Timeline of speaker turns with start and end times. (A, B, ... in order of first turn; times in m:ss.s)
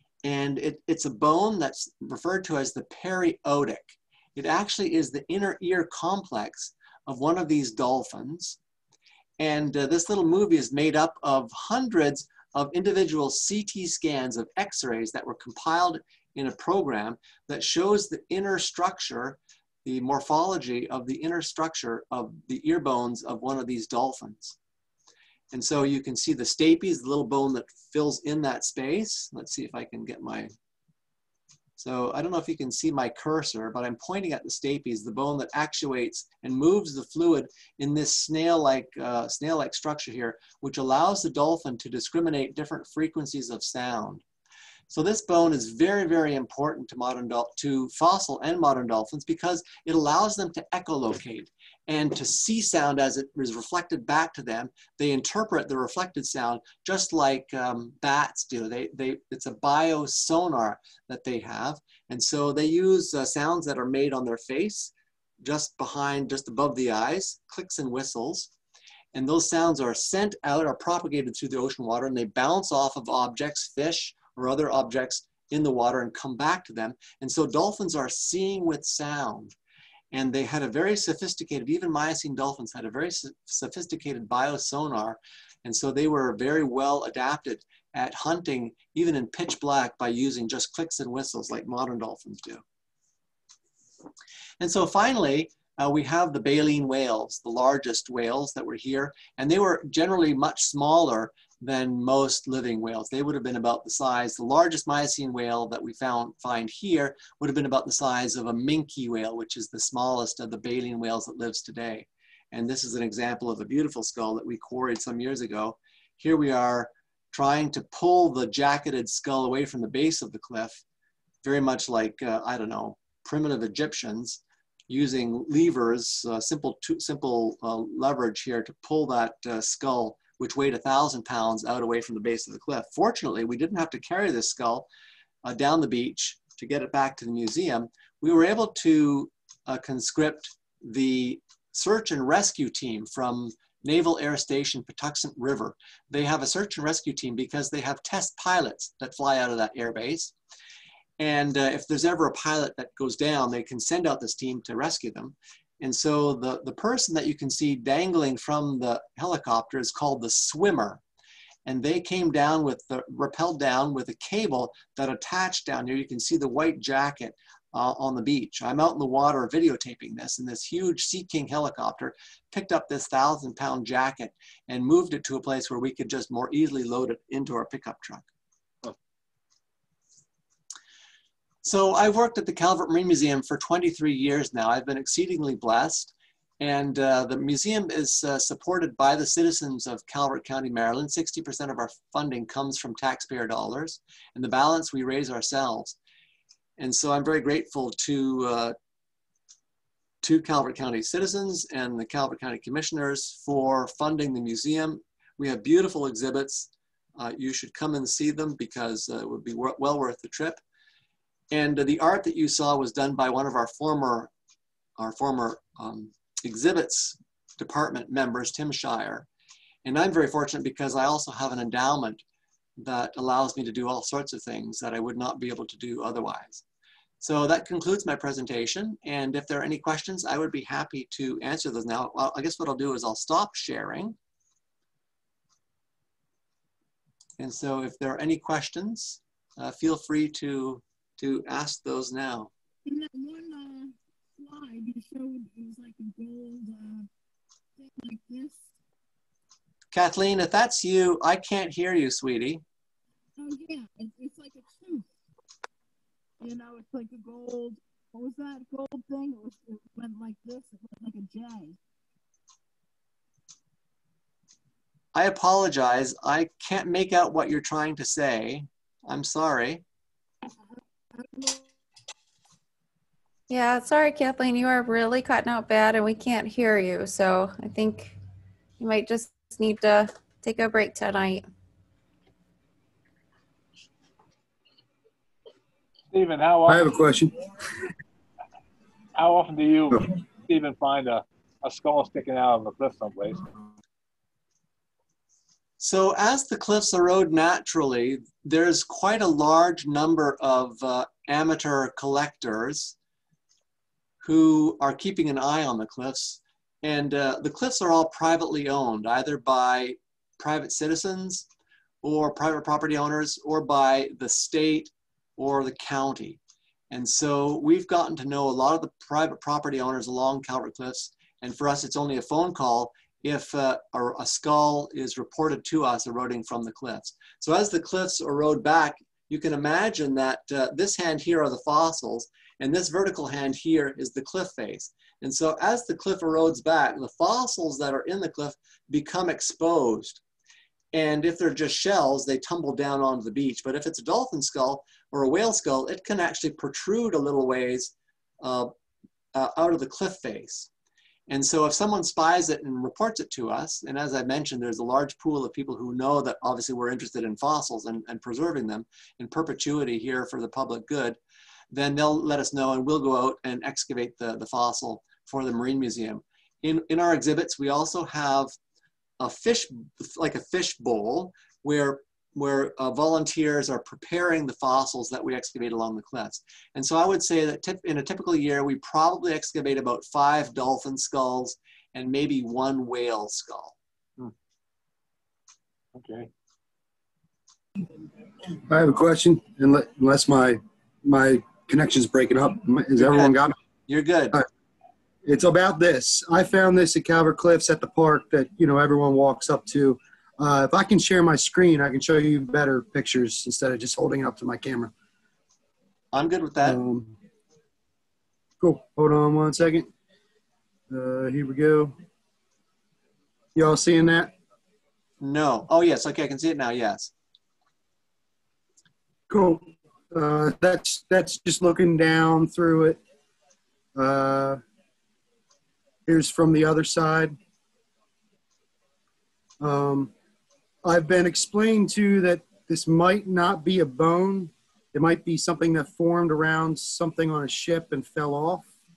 0:00.2-0:08.6 A
0:09.4-0:24.6 A
0:25.5-0:30.5 A
0:31.8-0:44.2 A
0:44.9-1:08.5 A
1:09.1-1:19.6 A
1:20.1-1:32.6 A
1:34.6-2:00.8 A
2:01.4-2:14.9 A
2:15.4-2:30.3 A
2:31.2-2:41.0 A
2:41.6-2:58.3 A
3:01.6-3:16.0 A
3:16.8-3:18.8 A
3:20.2-3:30.6 A
3:31.5-3:34.3 A
3:35.0-3:39.3 A
3:39.8-3:42.2 A
3:42.8-3:46.6 A
3:47.2-3:54.2 A
3:57.4-4:02.5 A
4:02.9-4:07.1 B
4:07.8-4:08.6 B
4:09.9-4:12.6 A
4:13.4-4:15.1 B
4:16.4-4:21.8 B
4:25.1-4:29.8 A
4:31.1-4:31.7 B
4:33.5-4:38.2 C
4:38.8-4:41.4 C
4:46.1-4:47.2 D
4:46.7-4:47.4 E
4:49.2-4:53.5 D
4:55.8-5:03.0 A
5:04.2-5:11.5 A
5:12.0-5:16.4 A
5:16.9-5:40.2 A
5:40.9-5:48.7 A
5:49.3-5:50.7 A
5:51.3-6:01.2 A
6:01.7-6:08.5 A
6:09.2-6:23.8 A
6:26.0-6:26.3 D
6:28.7-6:33.6 E
6:33.0-6:33.4 A
6:33.9-6:34.4 A
6:35.2-6:44.9 E
6:46.1-6:46.8 A
6:46.7-6:47.2 E
6:48.6-6:49.9 E
6:50.9-6:52.0 E
6:53.6-6:54.3 E
6:55.2-6:57.1 A
6:59.3-7:03.0 E
7:04.0-7:04.6 E
7:06.1-7:07.4 E
7:09.6-7:10.1 E
7:10.8-7:18.7 E